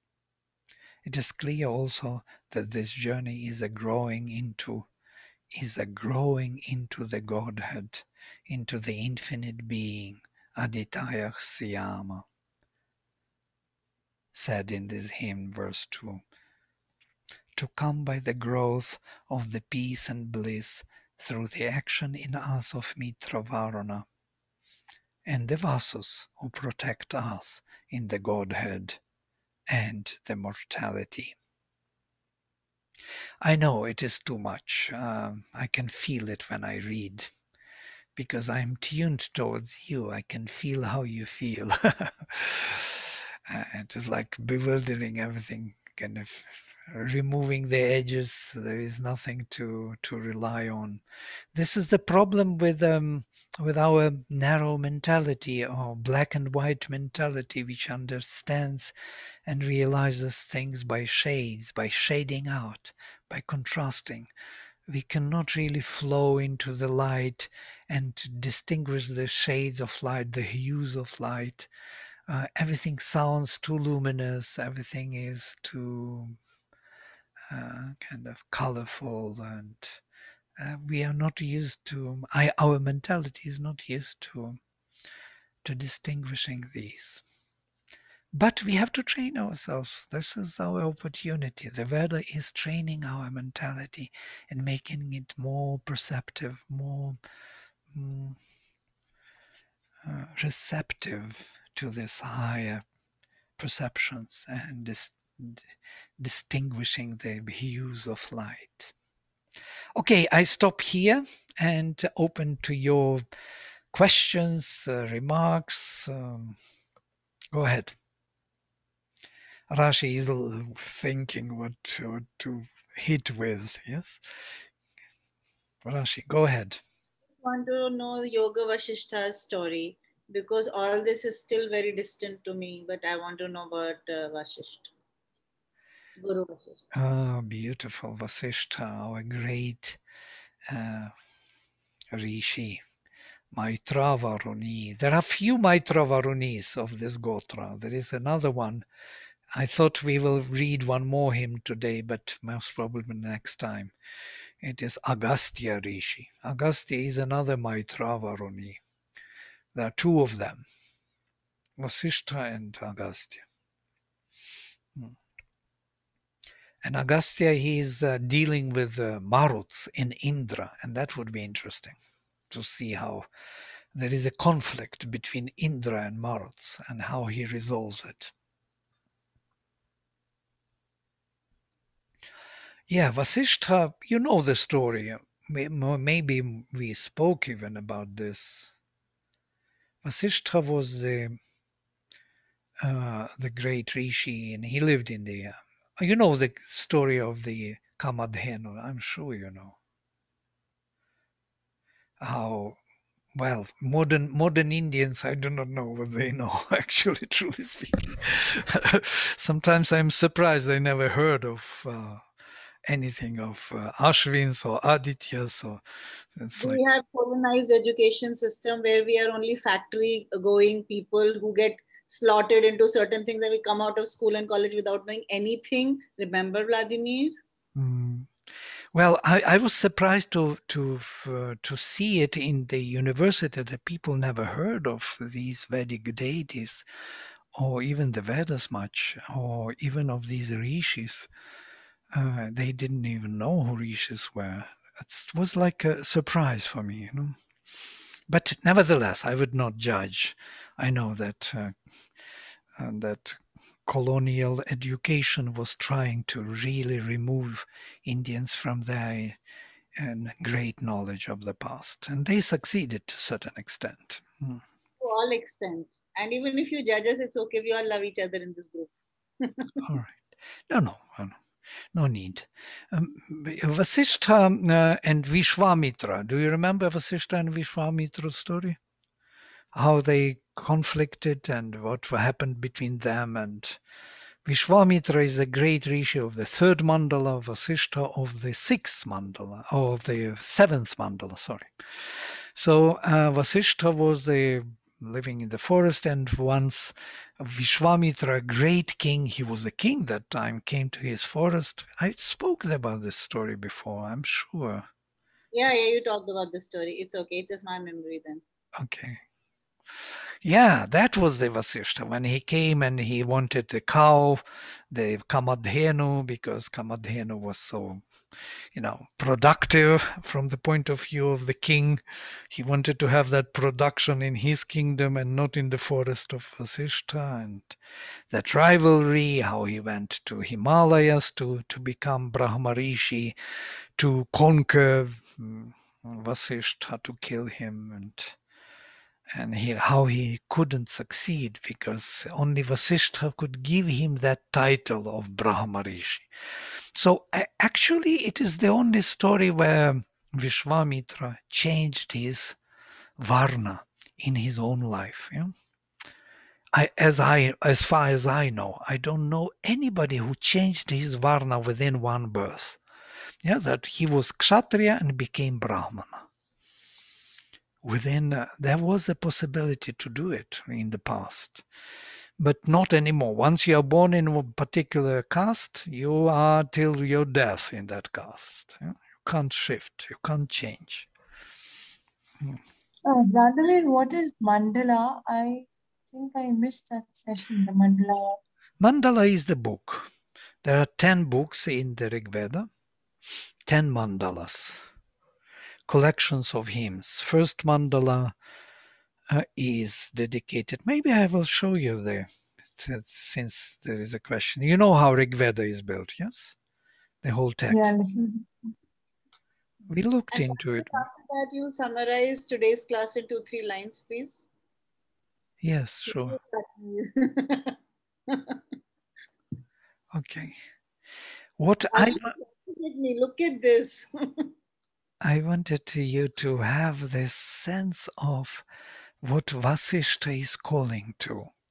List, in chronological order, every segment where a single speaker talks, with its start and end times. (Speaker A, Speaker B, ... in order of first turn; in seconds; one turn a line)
Speaker A: 1.1-4.9
Speaker A: 5.5-12.2
Speaker A: 14.3-16.2
Speaker A: 17.6-24.1
Speaker A: 25.3-29.0
Speaker A: 29.7-31.4
Speaker A: 33.4-37.3
Speaker A: 38.1-51.0
Speaker A: 51.5-58.9
Speaker A: 59.5-64.3
Speaker A: 64.9-71.7
Speaker A: 72.3-76.4
Speaker A: 77.5-80.0
Speaker A: 80.6-84.6
Speaker A: 85.6-87.2
Speaker A: 88.3-97.2
Speaker A: 97.9-98.4
Speaker A: 100.0-102.8
Speaker A: 103.6-108.9
Speaker A: 110.0-113.3
Speaker A: 113.9-116.6
Speaker A: 117.5-118.0
Speaker A: 119.7-124.7
Speaker A: 125.8-126.8
Speaker B: 127.4-134.9
Speaker B: 136.2-136.8
Speaker A: 136.9-140.0
Speaker A: 140.7-141.1
Speaker A: 142.1-142.8
Speaker A: 143.5-148.8
Speaker A: 149.6-153.9
Speaker A: 154.6-158.8
Speaker A: 159.7-160.7
Speaker A: 161.8-163.4
Speaker A: 166.8-172.0
Speaker A: 172.5-173.3
Speaker A: 173.9-178.3
Speaker A: 182.9-188.7
Speaker A: 190.0-191.4
Speaker A: 192.8-199.8
Speaker A: 202.2-202.8
Speaker A: 203.3-212.2
Speaker A: 212.8-216.8
Speaker B: 216.6-227.3
Speaker A: 227.8-228.3
Speaker A: 228.9-236.9
Speaker A: 237.5-241.3
Speaker A: 242.1-251.8
Speaker A: 252.8-259.4
Speaker A: 260.0-264.6
Speaker B: 265.0-269.8
Speaker A: 269.8-271.4
Speaker A: 271.9-278.8
Speaker A: 279.7-283.8
Speaker A: 284.4-304.9
Speaker B: 305.5-308.4
Speaker A: 308.8-309.2
Speaker A: 310.0-327.8
Speaker A: 328.3-333.4
Speaker A: 334.0-338.4
Speaker A: 339.3-352.6
Speaker A: 353.2-355.5
Speaker A: 356.7-362.8
Speaker A: 363.4-366.3
Speaker A: 367.8-371.6
Speaker A: 372.4-381.1
Speaker C: 383.1-388.4
Speaker A: 388.8-390.1
Speaker A: 390.6-392.7
Speaker A: 393.7-394.8
Speaker A: 395.9-398.4
Speaker A: 399.3-406.6
Speaker A: 407.2-408.0
Speaker C: 407.7-408.5
Speaker A: 409.9-411.1
Speaker B: 410.3-414.4
Speaker A: 415.6-416.4
Speaker B: 416.1-417.8
Speaker B: 418.3-418.8
Speaker A: 420.1-420.6
Speaker A: 421.6-422.4
Speaker B: 421.9-424.5
Speaker A: 425.2-428.7
Speaker A: 429.2-431.5